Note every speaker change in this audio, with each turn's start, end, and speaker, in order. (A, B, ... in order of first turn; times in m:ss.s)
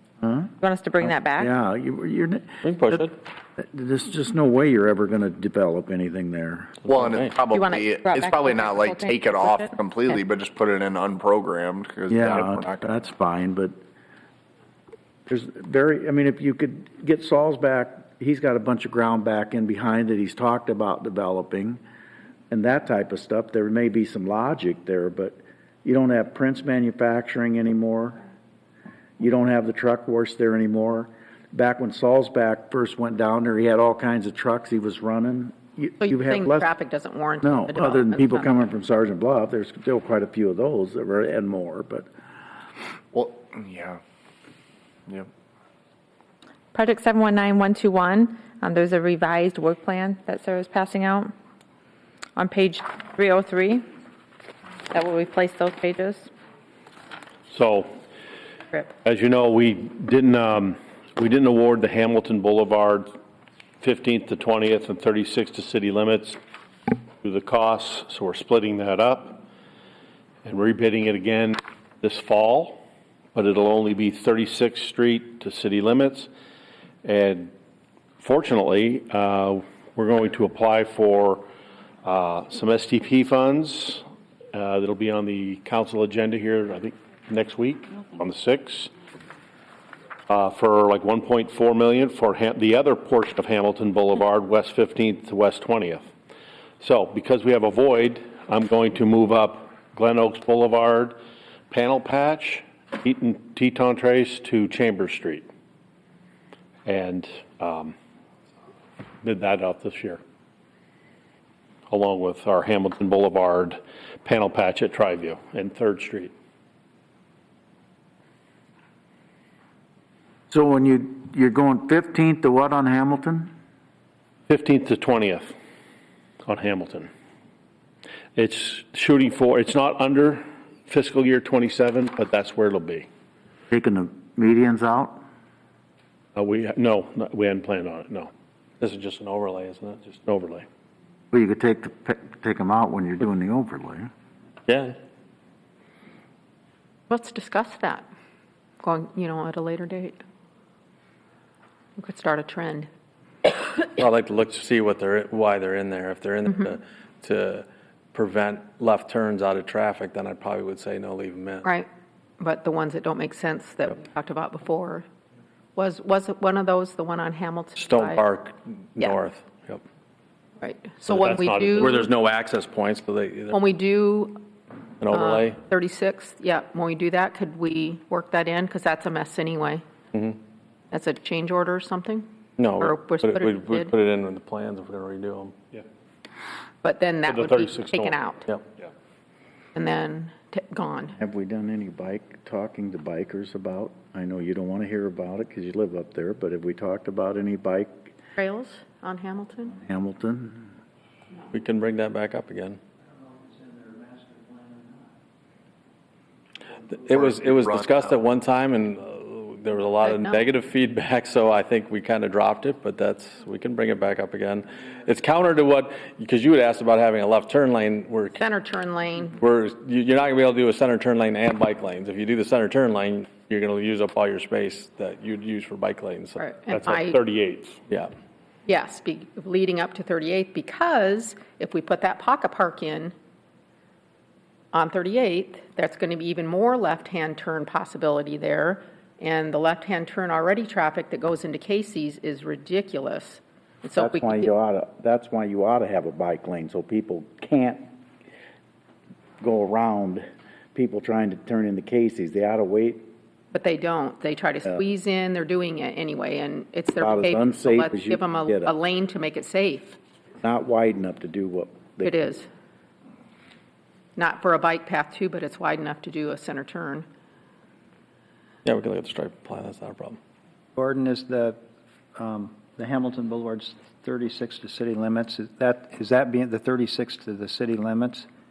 0:00.2-0:06.9 A
0:00.6-0:01.5 B
0:02.6-0:03.1 C
0:06.9-0:12.9 D
0:06.9-0:07.3 C
0:07.5-0:10.1 B
0:12.1-0:13.7 A
0:15.3-0:21.8 A
0:22.5-0:28.2 A
0:29.2-0:36.7 A
0:36.0-0:38.5 E
0:37.4-0:42.1 A
0:43.1-0:44.0 D
0:46.7-0:51.3 B
0:52.4-0:53.8 B
0:54.9-0:56.3 B
0:57.5-0:57.9 F
0:59.0-1:03.1 F
1:03.8-1:06.4 F
1:07.2-1:09.4 F
1:10.4-1:12.8 F
1:13.3-1:16.3 F
1:17.0-1:17.5 F
1:18.2-1:21.5 F
1:22.0-1:28.9 F
1:30.3-1:36.1 F
1:36.8-1:41.2 F
1:41.7-1:45.5 F
1:46.9-1:47.9 F
1:49.2-1:50.2 F
1:51.9-1:56.3 F
2:00.5-2:03.5 A
2:04.5-2:05.5 F
2:06.4-2:07.1 F
2:08.4-2:13.1 F
2:13.7-2:15.2 A
2:16.4-2:18.3 F
2:18.8-2:20.1 C
2:20.1-2:20.7 F
2:21.3-2:24.1 A
2:24.7-2:25.0 C
2:27.1-2:28.0 E
2:28.8-2:30.2 E
2:32.0-2:32.9 E
2:34.0-2:41.7 C
2:42.4-2:45.1 E
2:45.8-2:48.2 E
2:47.8-2:49.8 C
2:50.6-2:52.1 E
2:51.1-2:51.9 F
2:51.8-2:53.6 C
2:53.5-2:54.5 E
2:55.0-2:55.6 C
2:55.1-2:59.8 E
3:00.1-3:00.4 C
3:00.9-3:03.9 E
3:02.6-3:05.5 C
3:06.8-3:08.5 E
3:07.3-3:08.2 F
3:09.8-3:11.2 E
3:11.2-3:18.1 A
3:18.4-3:19.8 E
3:19.8-3:20.7 A
3:21.5-3:22.8 C
3:23.5-3:25.0 G
3:26.9-3:38.4 C
3:27.1-3:28.0 D
3:30.0-3:30.5 E
3:38.4-3:39.4 E
3:39.4-3:46.4 C
3:46.4-3:47.2 E
3:46.7-3:47.8 F
3:48.7-3:53.1 E
3:54.7-4:04.5 E
4:04.0-4:07.9 A
4:09.4-4:13.1 A
4:13.5-4:20.0 E
4:17.0-4:18.7 A
4:20.4-4:22.2 A
4:22.0-4:22.5 E
4:24.2-4:27.1 E
4:28.6-4:30.2 C
4:30.8-4:31.6 G
4:32.2-4:38.3 G